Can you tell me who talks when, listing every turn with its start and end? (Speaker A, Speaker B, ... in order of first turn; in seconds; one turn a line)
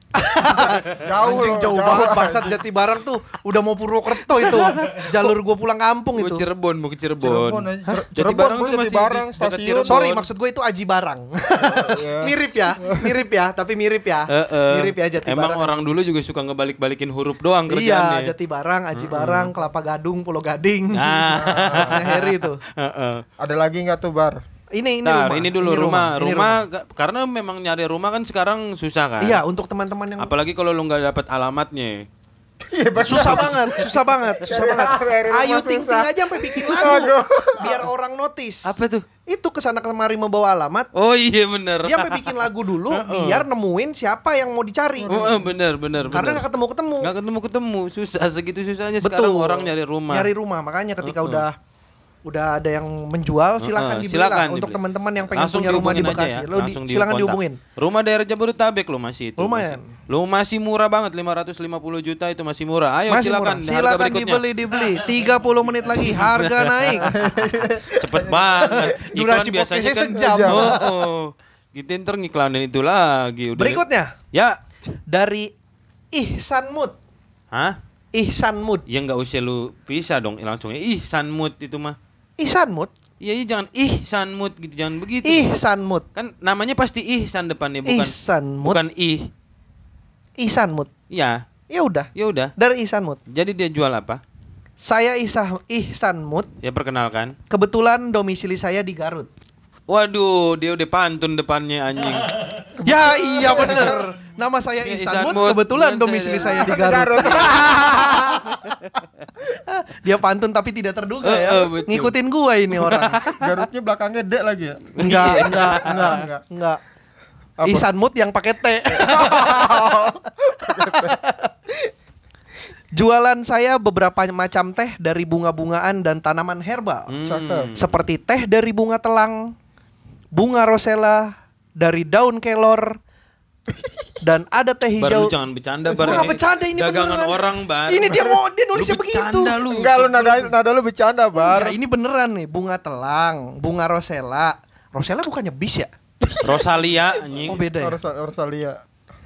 Speaker A: 0.1-6.4
Speaker B: 0.6-2.6
Speaker C: 4.5-4.9
Speaker C: 6.2-10.3
Speaker B: 7.2-10.0
Speaker A: 9.9-15.9
Speaker B: 11.7-13.1
Speaker C: 14.3-18.3
Speaker A: 17.7-22.6
Speaker C: 18.9-19.5
Speaker C: 20.9-23.2
Speaker B: 21.3-22.0
Speaker B: 23.4-24.4
Speaker A: 24.7-26.6
Speaker C: 25.1-29.4
Speaker A: 29.2-30.3
Speaker C: 30.2-32.1
Speaker B: 32.6-37.9
Speaker A: 33.0-40.9
Speaker C: 38.6-39.1
Speaker C: 40.9-43.5
Speaker A: 41.9-45.3
Speaker B: 45.0-45.5
Speaker C: 45.1-46.5
Speaker A: 46.1-47.1
Speaker C: 47.0-50.3
Speaker A: 49.0-51.6
Speaker C: 51.0-51.4
Speaker A: 52.3-57.6
Speaker C: 53.6-65.0
Speaker A: 59.4-60.0
Speaker A: 63.1-67.2
Speaker C: 66.0-67.2
Speaker B: 67.1-68.7
Speaker C: 67.8-74.6
Speaker A: 68.6-71.1
Speaker B: 70.1-70.8
Speaker A: 73.6-74.2
Speaker A: 75.1-75.5
Speaker A: 76.1-77.0
Speaker C: 77.5-77.8
Speaker A: 78.1-78.8
Speaker C: 78.9-82.0
Speaker A: 82.4-82.9
Speaker C: 83.2-85.5
Speaker A: 85.2-86.1
Speaker C: 86.2-88.1
Speaker A: 87.9-88.8
Speaker C: 88.7-89.3
Speaker A: 90.4-90.9
Speaker C: 91.1-91.4
Speaker A: 91.7-93.2
Speaker C: 92.2-92.5
Speaker C: 93.3-94.2
Speaker A: 94.8-96.5
Speaker C: 96.6-97.3
Speaker A: 97.5-99.3
Speaker C: 99.9-102.5
Speaker B: 102.8-104.1
Speaker A: 102.8-108.8
Speaker C: 104.8-106.7
Speaker B: 106.5-108.4
Speaker A: 109.5-113.3
Speaker C: 111.2-112.1
Speaker C: 112.8-113.3
Speaker B: 113.3-116.4
Speaker C: 115.0-116.2
Speaker A: 115.0-116.8
Speaker B: 117.6-117.9
Speaker A: 117.6-120.1
Speaker B: 118.9-121.2
Speaker A: 120.6-121.5
Speaker A: 122.9-127.1
Speaker C: 127.1-127.9
Speaker B: 127.2-127.7
Speaker A: 127.8-129.6
Speaker A: 130.3-133.0
Speaker A: 134.2-135.3
Speaker C: 135.0-140.5
Speaker B: 135.9-136.3
Speaker A: 136.0-139.6
Speaker B: 139.7-141.8
Speaker A: 141.4-145.9
Speaker C: 146.4-147.6
Speaker A: 147.4-148.0
Speaker B: 147.4-148.8